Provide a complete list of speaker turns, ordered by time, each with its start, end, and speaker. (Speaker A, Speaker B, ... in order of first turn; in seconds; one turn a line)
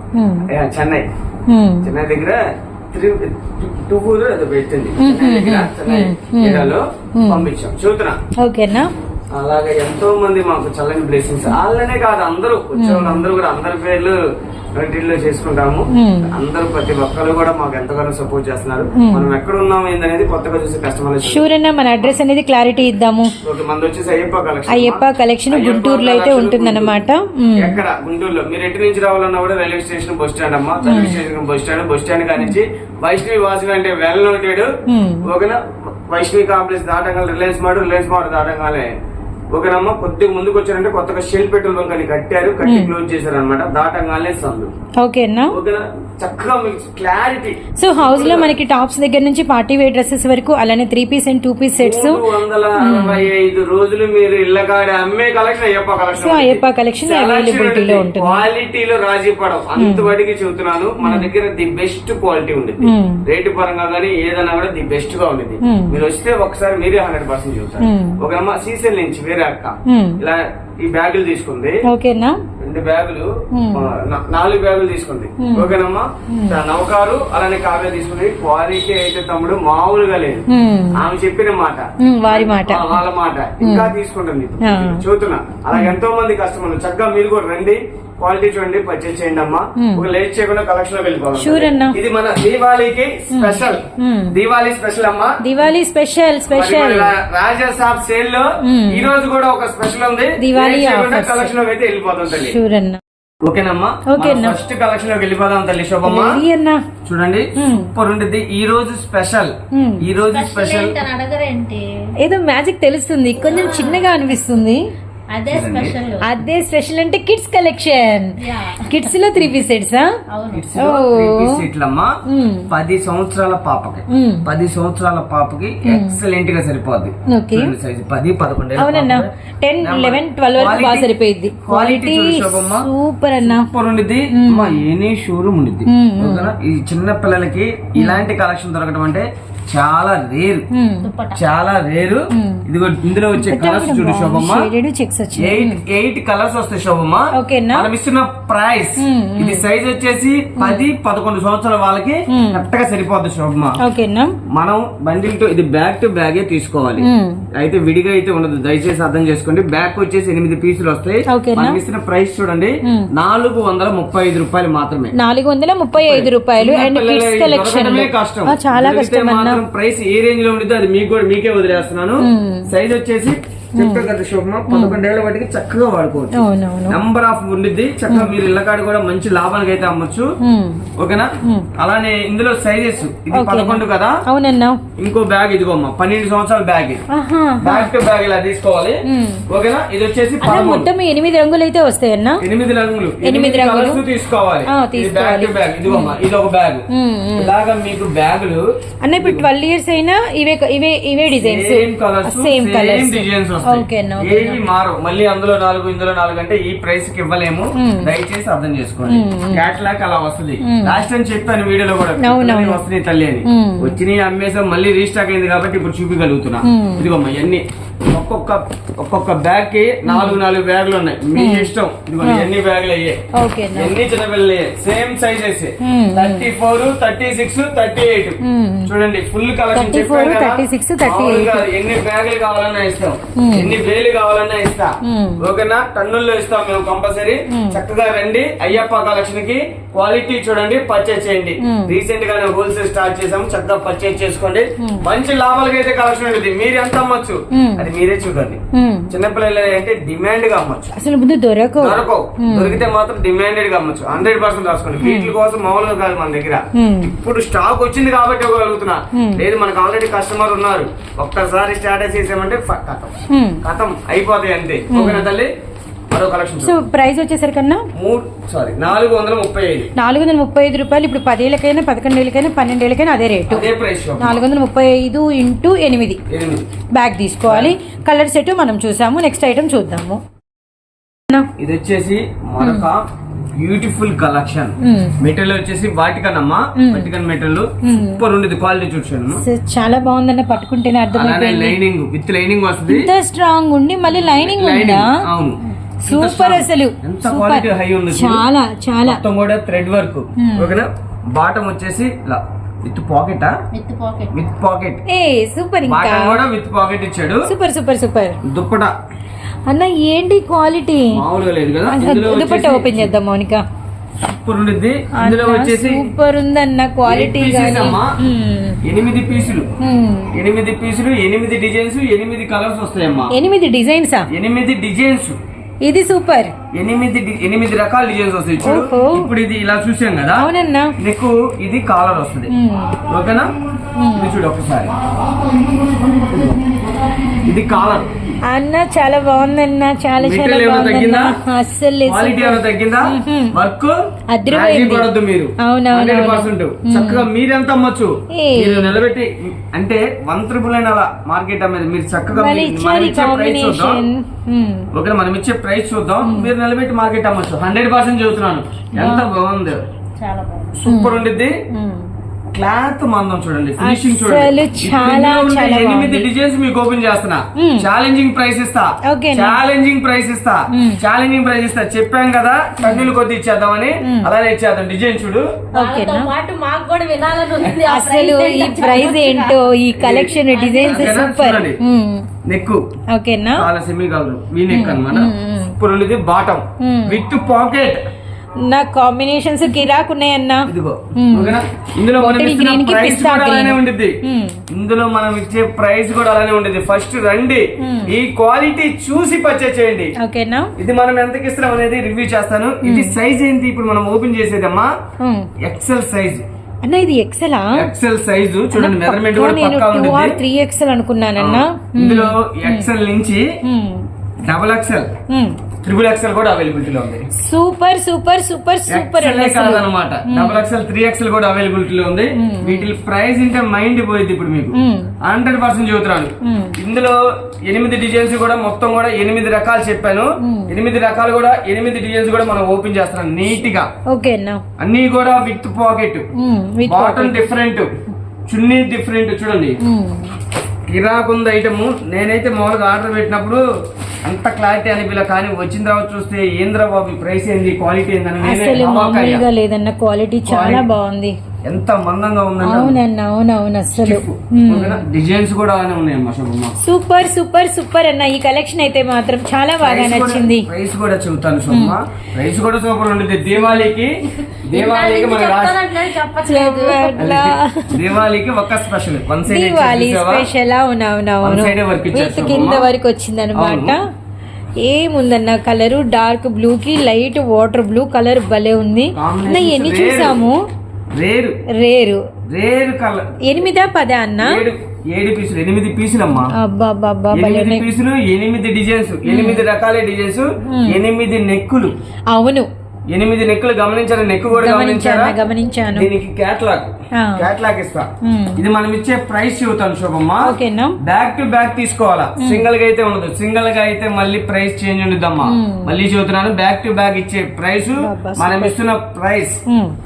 Speaker A: 0.1-0.5
Speaker B: 0.4-1.1
Speaker A: 1.5-1.9
Speaker B: 1.8-2.4
Speaker B: 2.9-8.2
Speaker A: 5.0-7.5
Speaker A: 8.4-8.9
Speaker B: 9.3-14.2
Speaker A: 12.7-13.3
Speaker B: 14.7-21.5
Speaker A: 15.9-16.4
Speaker A: 19.0-19.3
Speaker A: 21.2-23.3
Speaker B: 23.4-26.9
Speaker A: 24.7-27.8
Speaker B: 27.6-34.7
Speaker A: 30.8-31.2
Speaker A: 34.9-35.2
Speaker B: 35.2-38.9
Speaker B: 39.5-44.7
Speaker A: 42.6-42.9
Speaker A: 45.0-45.5
Speaker B: 45.5-48.5
Speaker A: 47.8-53.3
Speaker B: 51.7-71.8
Speaker A: 56.1-58.4
Speaker A: 59.8-60.1
Speaker A: 61.0-61.3
Speaker A: 62.8-63.2
Speaker A: 65.6-66.0
Speaker A: 67.8-68.2
Speaker A: 69.8-70.2
Speaker A: 71.9-72.4
Speaker B: 72.6-95.4
Speaker A: 73.5-73.9
Speaker A: 75.4-75.7
Speaker A: 76.3-76.6
Speaker A: 80.5-81.0
Speaker A: 82.0-83.0
Speaker A: 83.6-83.9
Speaker A: 84.6-85.0
Speaker A: 89.8-90.1
Speaker A: 91.3-92.0
Speaker A: 93.3-94.3
Speaker A: 95.4-97.2
Speaker B: 96.5-102.6
Speaker A: 98.6-99.1
Speaker A: 100.4-101.5
Speaker A: 102.3-103.0
Speaker B: 103.4-106.4
Speaker A: 104.1-104.6
Speaker A: 106.0-106.8
Speaker B: 107.0-111.0
Speaker A: 107.5-107.9
Speaker A: 109.7-110.1
Speaker C: 110.2-111.9
Speaker A: 112.2-114.8
Speaker C: 113.4-114.2
Speaker C: 115.3-116.3
Speaker B: 115.5-116.0
Speaker A: 116.2-120.1
Speaker C: 118.4-119.1
Speaker C: 120.3-120.7
Speaker B: 120.5-122.1
Speaker A: 120.7-121.6
Speaker A: 122.3-122.7
Speaker B: 122.7-129.3
Speaker A: 124.1-124.5
Speaker A: 125.8-126.2
Speaker A: 127.3-127.7
Speaker A: 128.8-133.7
Speaker B: 129.8-131.1
Speaker B: 131.6-132.9
Speaker B: 133.4-140.7
Speaker A: 134.3-134.8
Speaker A: 135.9-136.5
Speaker A: 138.0-138.2
Speaker A: 140.7-141.1
Speaker C: 141.0-141.4
Speaker B: 141.3-144.7
Speaker A: 142.3-142.6
Speaker A: 143.3-145.8
Speaker B: 145.4-153.8
Speaker A: 147.3-147.9
Speaker A: 149.0-149.7
Speaker A: 150.6-150.9
Speaker A: 152.3-152.7
Speaker A: 153.8-154.3
Speaker B: 154.5-165.1
Speaker A: 157.0-157.4
Speaker A: 161.3-161.8
Speaker A: 165.1-169.6
Speaker B: 166.0-180.3
Speaker A: 172.2-172.7
Speaker A: 173.8-174.1
Speaker A: 174.7-175.0
Speaker A: 176.3-177.0
Speaker A: 178.1-178.3
Speaker A: 180.4-180.9
Speaker B: 180.9-184.2
Speaker A: 181.4-181.7
Speaker A: 183.3-184.8
Speaker B: 185.0-187.0
Speaker A: 187.1-187.9
Speaker B: 187.6-190.9
Speaker A: 189.1-189.4
Speaker A: 190.4-192.4
Speaker B: 192.4-196.8
Speaker A: 193.2-194.0
Speaker A: 194.7-196.2
Speaker A: 196.9-197.5
Speaker B: 197.4-199.4
Speaker A: 199.0-204.6
Speaker B: 201.3-223.2
Speaker A: 207.8-208.1
Speaker A: 209.1-209.6
Speaker A: 210.6-211.0
Speaker A: 212.2-212.8
Speaker A: 213.5-214.0
Speaker A: 216.7-217.1
Speaker A: 220.0-220.4
Speaker A: 221.3-222.5
Speaker A: 223.3-224.0
Speaker B: 223.7-250.9
Speaker A: 225.8-226.5
Speaker A: 228.4-228.9
Speaker A: 229.7-231.7
Speaker A: 233.4-233.8
Speaker A: 235.0-235.4
Speaker A: 237.5-237.8
Speaker A: 241.6-241.9
Speaker A: 247.5-247.9
Speaker A: 248.7-249.1
Speaker A: 250.9-252.8
Speaker B: 251.8-265.5
Speaker A: 255.0-255.3
Speaker A: 256.7-257.1
Speaker A: 259.1-259.4
Speaker A: 263.3-263.6
Speaker A: 264.9-265.3
Speaker B: 266.1-266.8
Speaker A: 266.6-267.9
Speaker B: 267.9-269.9
Speaker A: 269.9-276.2
Speaker B: 273.5-274.4
Speaker B: 276.3-276.7
Speaker A: 276.9-280.2
Speaker B: 277.5-277.8
Speaker B: 281.6-283.0
Speaker A: 282.6-282.9
Speaker B: 283.5-289.4
Speaker A: 284.8-285.1
Speaker A: 286.8-287.1
Speaker A: 287.8-288.2
Speaker A: 289.4-291.8
Speaker B: 291.1-293.1
Speaker A: 292.9-295.1
Speaker B: 294.2-298.4
Speaker A: 296.0-299.2
Speaker B: 299.0-303.6
Speaker A: 300.4-300.8
Speaker C: 303.7-304.4
Speaker B: 304.3-305.0
Speaker A: 305.1-306.4
Speaker B: 305.9-307.5
Speaker A: 307.4-308.4
Speaker B: 308.4-308.9
Speaker A: 309.7-311.2
Speaker B: 311.1-313.1
Speaker A: 311.9-313.6
Speaker B: 314.2-316.1
Speaker A: 315.1-318.8
Speaker B: 317.1-318.2
Speaker B: 318.8-319.7
Speaker A: 319.8-320.3
Speaker B: 320.3-323.3
Speaker A: 323.3-324.3
Speaker B: 324.3-325.4
Speaker A: 325.8-326.6
Speaker B: 326.7-332.5
Speaker A: 328.6-329.3
Speaker A: 330.4-330.9
Speaker A: 332.5-333.0
Speaker B: 333.1-333.5
Speaker A: 333.9-334.3
Speaker B: 334.1-334.9
Speaker B: 336.0-336.6
Speaker B: 337.4-338.1
Speaker A: 338.5-343.6
Speaker B: 340.2-341.4
Speaker B: 342.1-343.9
Speaker A: 344.3-347.3
Speaker B: 344.5-354.0
Speaker A: 348.3-349.0
Speaker A: 352.3-354.9
Speaker B: 354.9-359.8
Speaker A: 356.2-356.5
Speaker A: 358.9-359.3
Speaker C: 360.2-360.7
Speaker B: 360.7-361.6
Speaker A: 360.9-362.1
Speaker B: 362.5-375.5
Speaker A: 363.8-366.3
Speaker A: 367.6-367.9
Speaker A: 369.0-369.6
Speaker A: 370.7-371.0
Speaker A: 372.8-373.1
Speaker A: 374.0-374.3
Speaker C: 375.7-379.6
Speaker A: 375.7-376.3
Speaker A: 377.8-382.3
Speaker B: 379.9-381.8
Speaker C: 380.4-381.2
Speaker B: 382.4-382.8
Speaker A: 383.1-383.7
Speaker B: 383.5-388.0
Speaker A: 384.7-385.7
Speaker A: 386.8-387.2
Speaker A: 388.6-391.6
Speaker B: 390.7-394.2
Speaker A: 392.2-394.6
Speaker B: 394.7-400.1
Speaker A: 397.8-398.1
Speaker A: 400.2-400.7
Speaker B: 400.8-404.9
Speaker A: 402.8-403.2
Speaker A: 405.2-405.5
Speaker B: 405.6-406.4
Speaker A: 406.8-407.9
Speaker B: 407.7-410.4
Speaker A: 408.7-412.9
Speaker B: 411.4-413.5
Speaker A: 413.6-414.1
Speaker B: 414.5-415.2
Speaker A: 415.3-415.6
Speaker B: 415.8-417.3
Speaker A: 417.3-420.6
Speaker B: 418.9-433.9
Speaker A: 422.4-422.9
Speaker A: 424.7-425.1
Speaker A: 426.4-426.8
Speaker A: 430.4-430.7
Speaker A: 434.1-434.6
Speaker B: 434.8-436.2
Speaker A: 436.4-437.5
Speaker B: 436.9-437.9
Speaker B: 438.5-439.8
Speaker A: 439.8-440.3
Speaker B: 440.9-443.6
Speaker B: 444.2-449.4
Speaker A: 448.4-451.4
Speaker B: 450.4-450.9
Speaker B: 451.6-453.0
Speaker A: 452.6-455.0
Speaker B: 454.0-456.8
Speaker A: 456.8-460.7
Speaker B: 459.8-465.8
Speaker A: 461.7-462.0
Speaker A: 463.5-463.9
Speaker C: 464.7-467.2
Speaker A: 466.4-468.1
Speaker B: 467.2-470.5
Speaker A: 469.4-474.0
Speaker B: 471.4-472.9
Speaker B: 473.5-473.9
Speaker A: 474.8-480.6
Speaker B: 479.1-480.4
Speaker B: 481.1-481.6
Speaker A: 481.7-482.3
Speaker B: 482.5-483.4
Speaker A: 483.4-484.6
Speaker B: 484.4-486.5
Speaker A: 486.5-487.9
Speaker B: 487.3-491.9
Speaker A: 489.2-489.6
Speaker A: 490.6-491.0
Speaker A: 492.3-492.7
Speaker B: 493.1-495.4
Speaker A: 494.5-496.1
Speaker B: 495.9-509.6
Speaker A: 497.1-497.5
Speaker A: 498.2-498.6
Speaker A: 500.4-501.0
Speaker A: 502.4-502.7
Speaker A: 505.4-505.9
Speaker A: 508.0-508.8
Speaker A: 509.7-509.9